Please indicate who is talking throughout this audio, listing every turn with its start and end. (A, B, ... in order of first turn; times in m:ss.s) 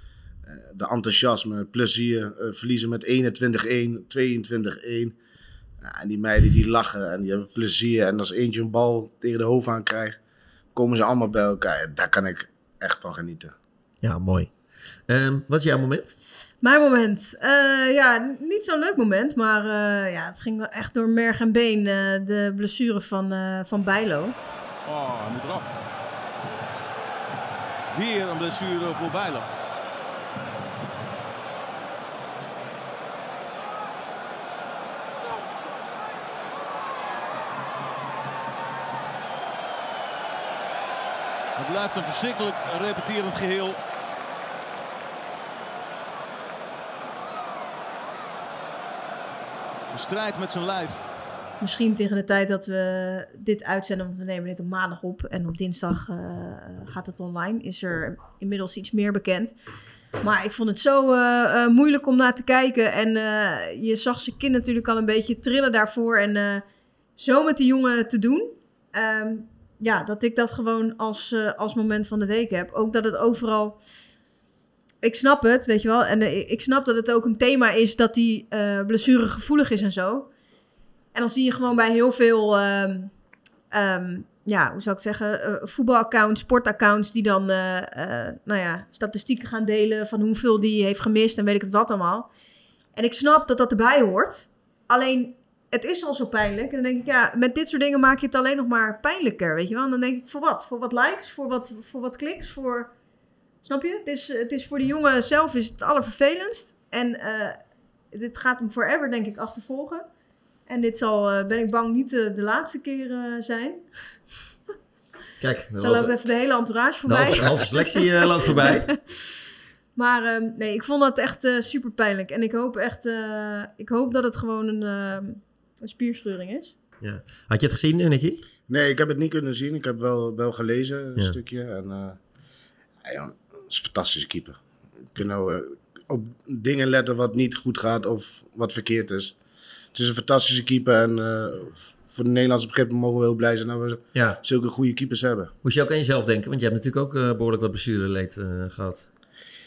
0:00.4-0:05.2 A
0:05.8-0:10.2 A
0:10.7-0:13.5 A
0:14.0-0:14.5 B
0:15.1-0:16.1 B
0:16.6-0:24.4 C
0:24.8-0:25.8 D
0:27.9-0:29.5 D
0:41.6-0:43.8 D
0:49.9-0:51.0 D
0:51.6-0:59.5 C
1:00.2-1:06.6 C
1:07.2-1:13.8 C
1:15.0-1:20.3 C
1:21.1-1:23.1 C
1:23.7-1:32.3 C
1:33.0-1:42.9 C
1:43.6-1:47.6 C
1:48.1-1:50.0 C
1:50.7-1:53.8 C
1:55.4-1:56.1 B
1:55.8-1:59.0 C
1:57.1-1:58.9 B
2:00.0-2:06.7 C
2:07.0-2:08.4 B
2:08.7-2:12.2 A
2:13.0-2:14.6 A
2:15.1-2:19.3 A
2:19.9-2:25.5 A
2:24.1-2:24.4 B
2:25.6-2:29.0 B